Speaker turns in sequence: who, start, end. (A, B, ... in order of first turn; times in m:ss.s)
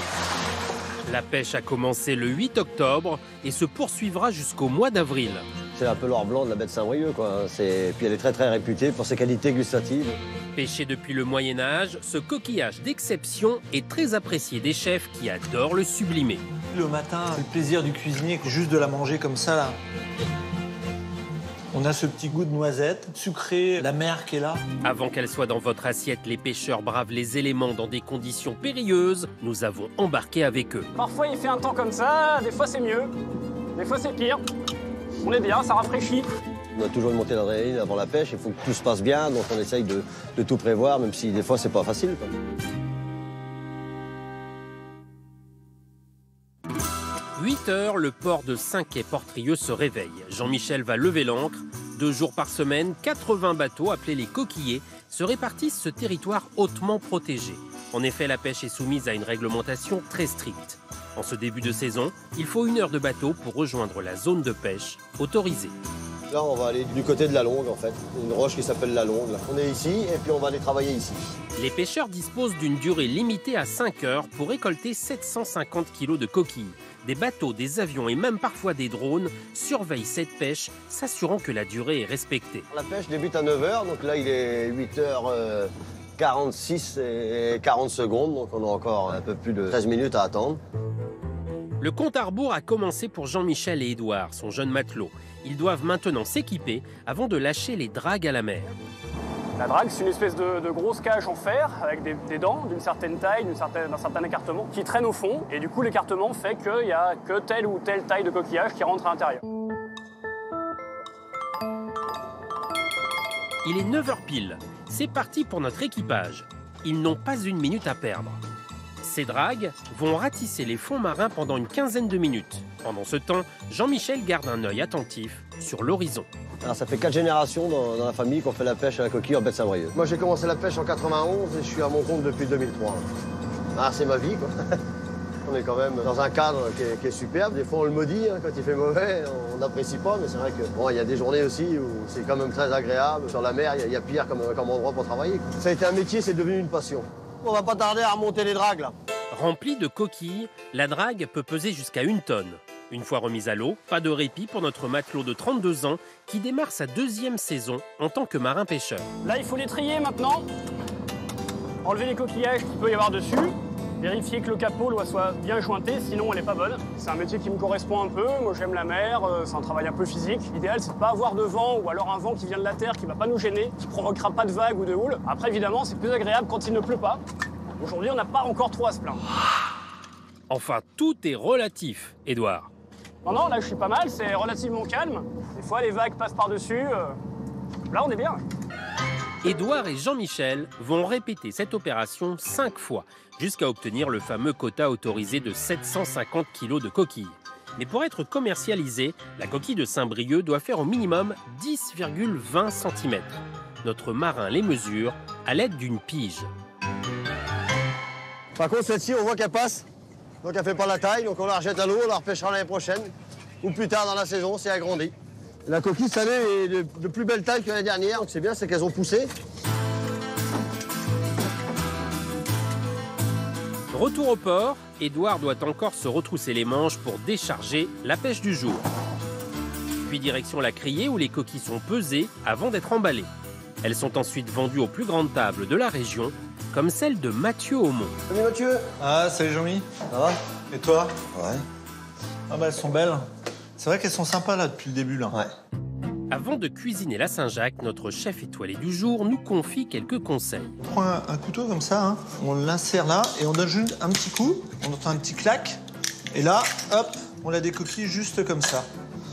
0:01.0-0:05.4 A
0:05.7-0:10.2 B
0:10.5-0:16.4 A
0:16.7-0:19.8 C
0:21.7-0:24.6 C
0:24.8-0:30.9 A
0:30.9-0:33.1 D
0:33.7-0:34.4 D
0:35.2-0:36.3 D
0:36.7-0:42.3 B
0:47.4-1:05.7 A
1:06.3-1:11.3 B
1:11.6-1:22.7 A
1:22.7-1:30.6 B
1:31.8-1:38.7 A
1:39.6-1:49.4 D
1:53.6-1:58.4 A
1:59.0-2:06.3 A
2:06.6-2:13.0 B
2:13.7-2:14.5 B
2:15.4-2:28.9 B
2:29.3-2:39.1 A
2:39.2-2:40.5 D
2:41.8-2:57.2 D
2:57.8-2:59.2 D
3:00.5-3:02.7 A
3:03.2-3:07.2 D
3:07.9-3:08.4 D
3:09.4-3:26.5 A
3:28.6-3:29.8 B
3:30.4-3:35.1 B
3:35.7-3:39.3 B
3:43.9-3:48.8 A
3:50.0-3:53.3 A
3:53.8-3:58.2 A
3:58.3-3:58.9 B
3:59.0-3:59.9 C
4:00.1-4:00.4 B
4:00.7-4:01.2 C
4:01.3-4:01.6 B
4:02.5-4:03.2 C
4:03.8-4:05.4 C
4:06.3-4:10.8 A
4:10.8-4:15.8 C
4:16.3-4:18.9 C